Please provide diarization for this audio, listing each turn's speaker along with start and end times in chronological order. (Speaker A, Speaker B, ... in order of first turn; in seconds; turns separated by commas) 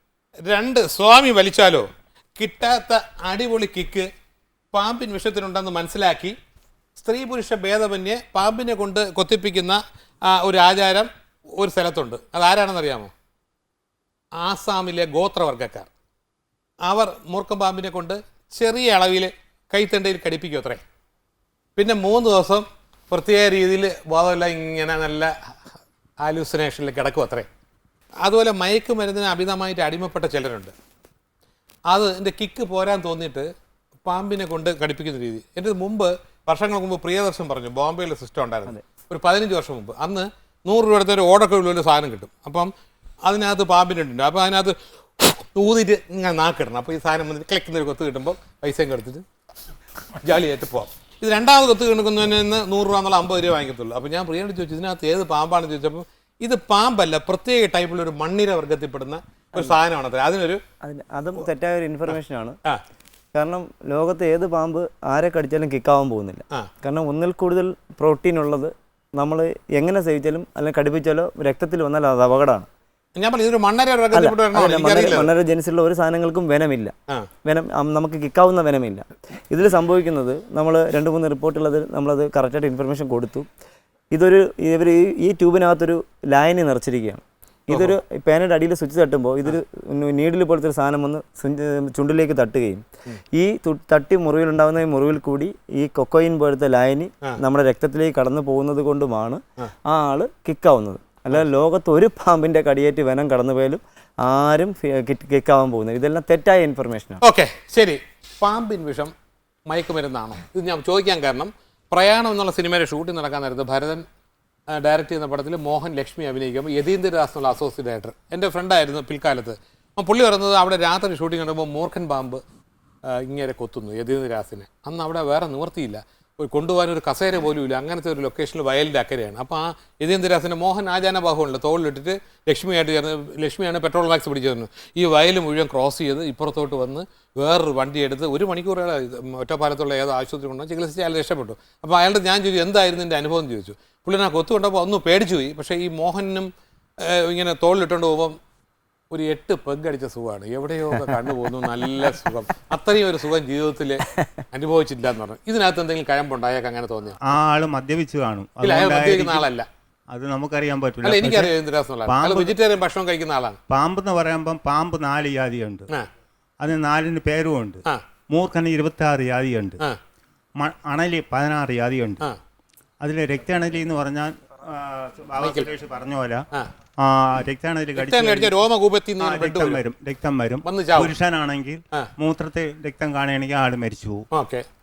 Speaker A: 0.5-1.9, Speaker A: 2.4-4.0, Speaker A: 4.7-6.3, Speaker A: 7.0-9.8, Speaker A: 10.3-13.1, Speaker A: 14.4-15.9, Speaker A: 16.8-20.8, Speaker A: 21.8-25.3, Speaker A: 26.2-27.5, Speaker A: 28.2-30.7, Speaker A: 31.9-33.5, Speaker A: 34.0-42.7, Speaker A: 43.2-49.2, Speaker A: 50.2-60.6, Speaker B: 60.8-62.6, Speaker A: 62.1-62.8, Speaker B: 63.3-72.7, Speaker A: 73.2-75.3, Speaker B: 74.1-83.5, Speaker B: 84.1-107.2, Speaker A: 107.2-109.1, Speaker A: 109.7-114.0, Speaker A: 114.7-122.4, Speaker A: 123.1-146.5, Speaker A: 147.1-148.3, Speaker A: 149.1-157.2, Speaker C: 157.2-159.5, Speaker A: 158.6-159.6, Speaker C: 160.1-161.5, Speaker A: 161.0-163.6, Speaker C: 162.0-162.6, Speaker C: 163.7-165.9, Speaker C: 166.6-169.8, Speaker C: 170.6-172.2, Speaker C: 173.0-176.4, Speaker A: 175.4-175.7, Speaker C: 177.0-178.5, Speaker A: 177.9-179.8, Speaker C: 179.2-184.2, Speaker A: 180.6-181.1, Speaker A: 184.3-184.6